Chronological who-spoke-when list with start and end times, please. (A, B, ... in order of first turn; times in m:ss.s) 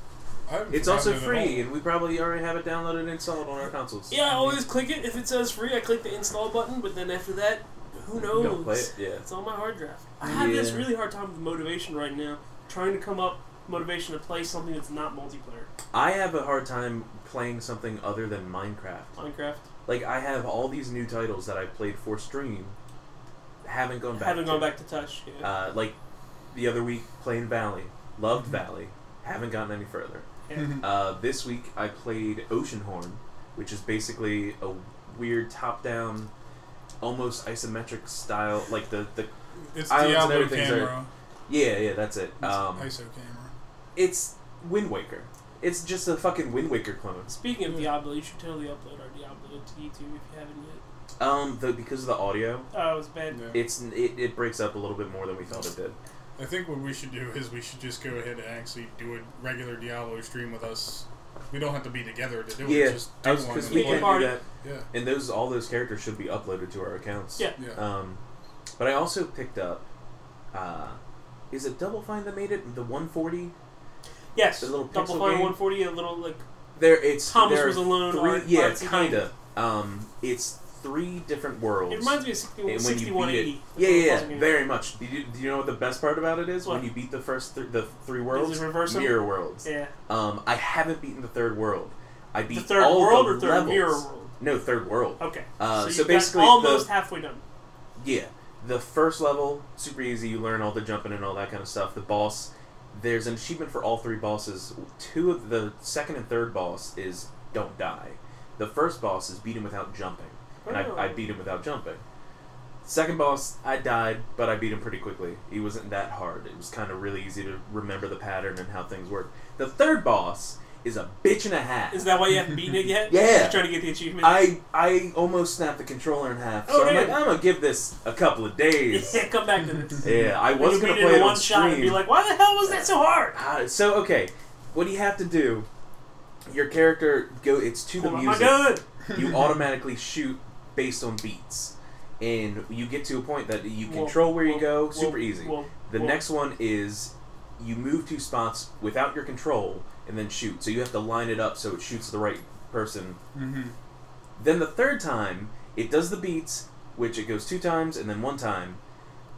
0:00.5-0:01.7 A
0:00.7-0:04.1 B
0:04.1-0:15.7 C
0:04.3-0:04.6 A
0:08.1-0:09.2 B
0:10.2-0:10.9 B
0:15.9-0:19.1 B
0:19.2-0:19.6 C
0:19.9-0:22.8 B
0:23.6-0:24.7 B
0:24.1-0:25.5 C
0:25.4-0:25.9 B
0:26.5-0:30.3 B
0:30.5-0:30.8 C
0:30.5-0:30.8 A
0:30.8-0:36.3 B
0:37.0-0:39.3 B
0:39.7-0:41.1 A
0:39.9-0:41.0 B
0:41.5-0:42.9 B
0:42.4-0:43.5 A
0:43.9-0:47.3 B
0:47.3-0:50.8 C
0:51.2-0:52.7 B
0:52.7-0:53.4 C
0:53.3-0:53.6 A
0:53.5-0:56.0 B
0:56.4-1:04.9 A
1:02.6-1:08.2 B
1:03.6-1:04.4 C
1:08.8-1:09.8 B
1:10.5-1:11.0 B
1:11.5-1:13.5 B
1:14.4-1:16.4 C
1:14.6-1:15.6 B
1:16.8-1:36.9 B
1:17.2-1:19.2 C
1:21.9-1:24.6 C
1:28.3-1:29.9 C
1:32.5-1:34.3 C
1:35.2-1:37.4 C
1:38.0-1:52.0 B
1:50.6-1:51.2 C
1:52.8-2:02.1 B
2:01.9-2:04.5 C
2:03.1-2:09.2 B
2:06.6-2:07.2 C
2:08.9-2:13.4 C
2:10.0-2:12.0 B
2:12.6-2:15.7 B
2:16.5-2:33.2 B
2:18.0-2:18.8 C
2:23.8-2:26.2 C
2:33.4-2:33.8 A
2:34.4-2:38.8 B